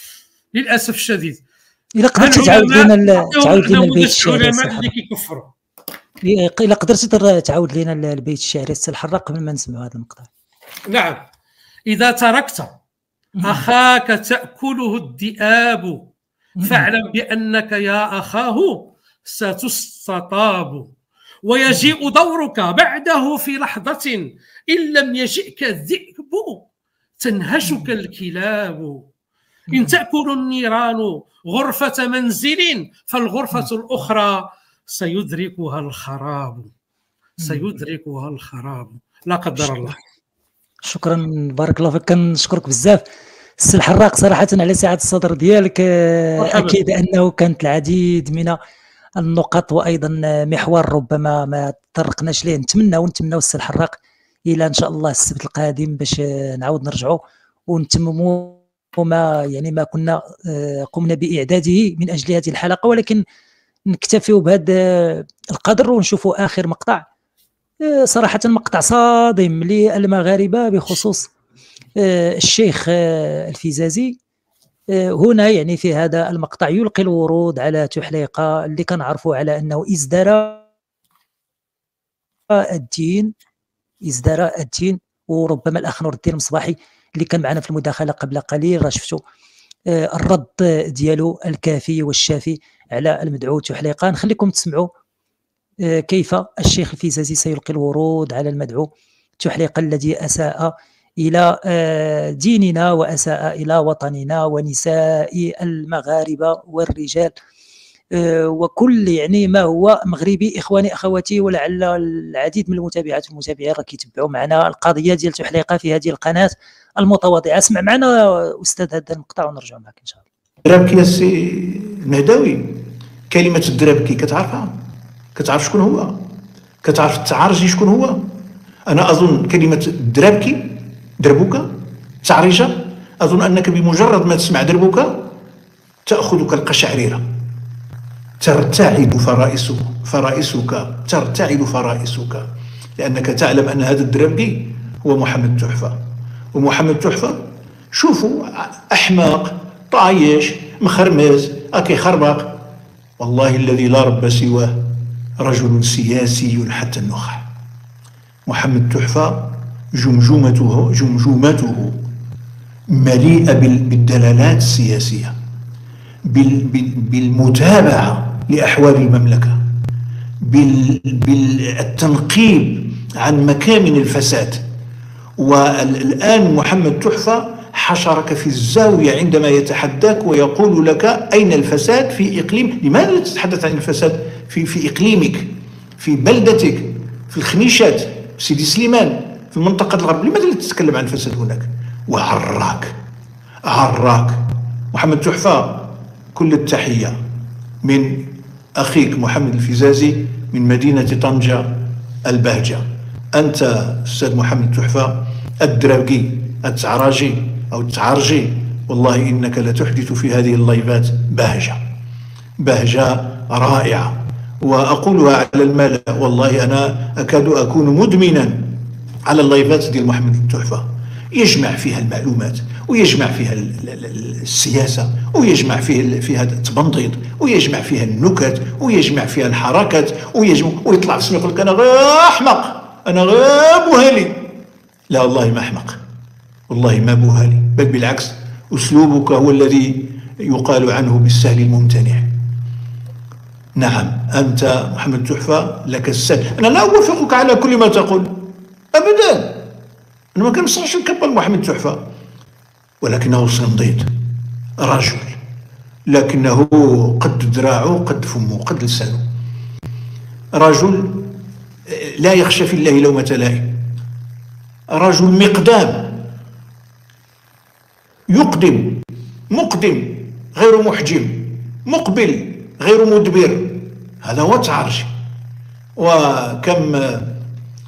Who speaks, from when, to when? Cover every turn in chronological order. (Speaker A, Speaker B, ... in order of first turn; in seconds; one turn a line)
Speaker A: 0.5-1.4
Speaker B: 2.0-4.9
Speaker A: 2.2-5.5
Speaker B: 6.2-10.3
Speaker A: 10.9-11.2
Speaker A: 11.9-12.7
Speaker B: 13.4-13.7
Speaker A: 13.4-16.1
Speaker B: 16.6-16.9
Speaker A: 16.6-20.9
Speaker A: 21.4-26.7
Speaker A: 27.2-29.1
Speaker B: 29.7-30.0
Speaker A: 29.7-36.7
Speaker B: 37.4-37.7
Speaker A: 37.4-40.0
Speaker B: 39.6-39.9
Speaker B: 40.9-43.0
Speaker B: 43.6-48.6
Speaker A: 46.4-46.8
Speaker B: 49.2-54.0
Speaker B: 54.5-63.2
Speaker B: 63.9-67.0
Speaker B: 67.9-71.3
Speaker B: 72.0-74.2
Speaker B: 75.0-80.6
Speaker B: 82.7-83.3
Speaker B: 84.1-89.2
Speaker B: 89.9-94.9
Speaker B: 95.9-107.3
Speaker B: 108.2-120.2
Speaker C: 120.6-124.7
Speaker C: 125.3-126.2
Speaker C: 126.8-128.2
Speaker C: 128.9-131.7
Speaker C: 132.2-135.2
Speaker C: 136.1-137.2
Speaker C: 138.4-142.4
Speaker C: 143.0-146.0
Speaker C: 146.5-147.4
Speaker C: 148.0-152.6
Speaker C: 153.2-157.5
Speaker C: 158.5-162.0
Speaker C: 162.9-165.3
Speaker C: 166.3-169.6
Speaker C: 170.4-174.6
Speaker C: 175.4-192.9
Speaker C: 193.7-197.1
Speaker C: 197.8-202.8
Speaker C: 203.3-211.8
Speaker C: 212.6-234.5
Speaker C: 235.1-236.0
Speaker C: 236.7-242.3
Speaker C: 243.8-249.7
Speaker C: 250.3-252.0
Speaker C: 253.0-254.1
Speaker C: 254.8-255.4
Speaker C: 256.1-259.2
Speaker C: 260.6-263.8
Speaker C: 264.9-266.3
Speaker C: 268.3-275.1
Speaker C: 276.0-277.4